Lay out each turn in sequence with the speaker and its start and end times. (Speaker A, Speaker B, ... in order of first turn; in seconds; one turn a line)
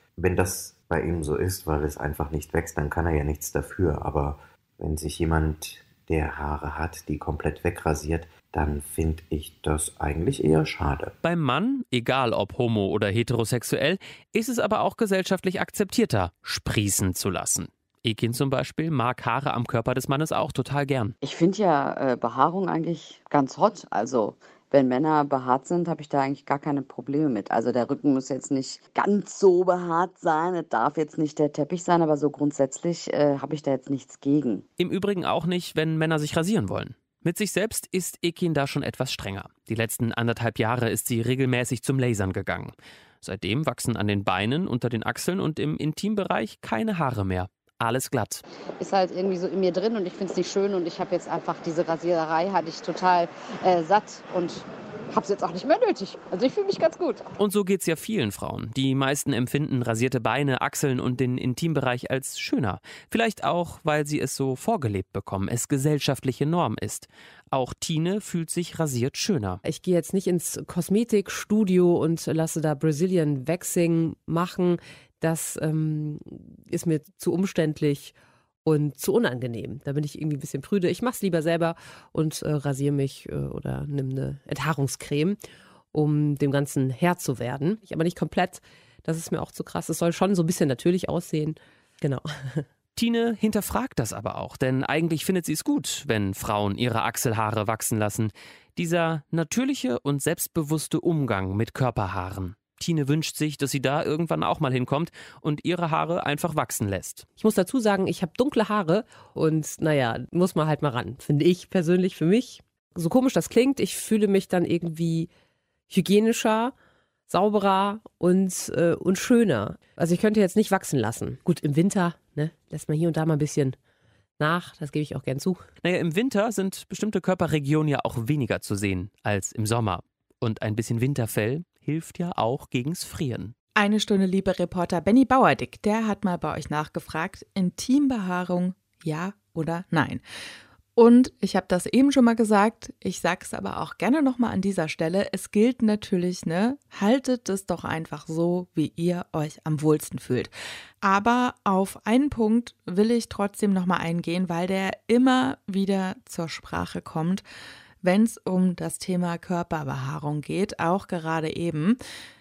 Speaker A: 0.2-11.2
Speaker B: 11.2-21.1
Speaker C: 21.2-34.6
Speaker B: 34.8-48.4
Speaker C: 48.8-57.2
Speaker B: 57.4-69.6
Speaker D: 69.6-85.4
Speaker D: 85.9-92.6
Speaker B: 92.9-107.3
Speaker D: 107.4-115.3
Speaker D: 115.9-116.7
Speaker D: 117.3-123.8
Speaker D: 124.4-125.7
Speaker B: 125.8-133.5
Speaker E: 133.8-140.2
Speaker E: 140.9-157.4
Speaker E: 158.0-162.0